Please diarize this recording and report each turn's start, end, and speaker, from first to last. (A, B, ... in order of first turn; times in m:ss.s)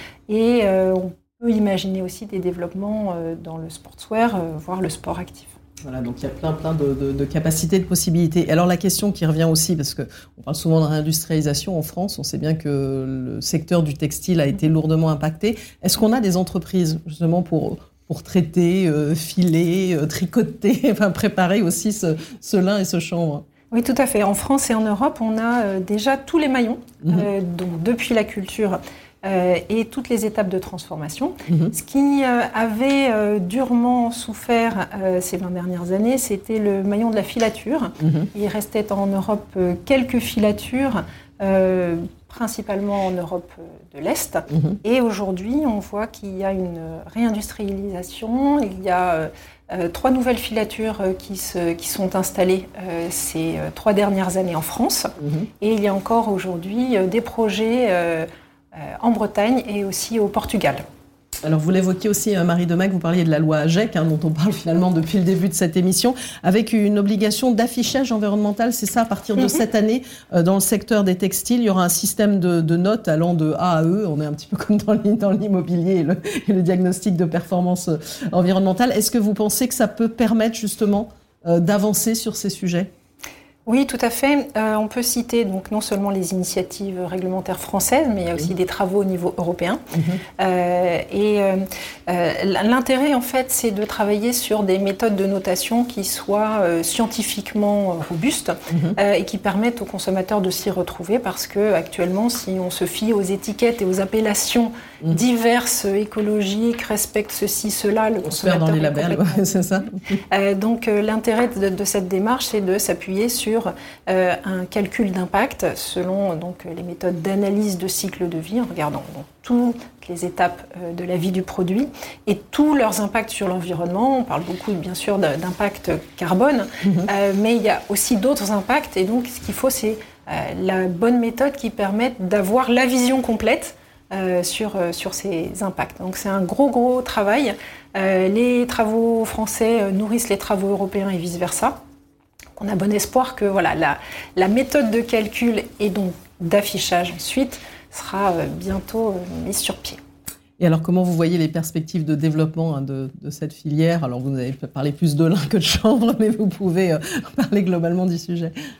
0:00.3-0:05.6 A
0:05.8-0:23.4 B
0:23.7-1:00.8 A
0:38.0-0:38.3 B
0:44.5-0:44.8 B
0:55.2-0:55.5 B
1:01.4-1:22.9 B
1:23.6-1:29.8 A
1:29.9-1:30.2 B
1:30.4-1:49.6 A
1:38.7-1:39.0 B
1:48.2-1:50.0 B
1:50.3-2:21.8 A
2:06.8-2:07.1 B
2:22.6-2:30.0 A
2:30.6-2:38.5 B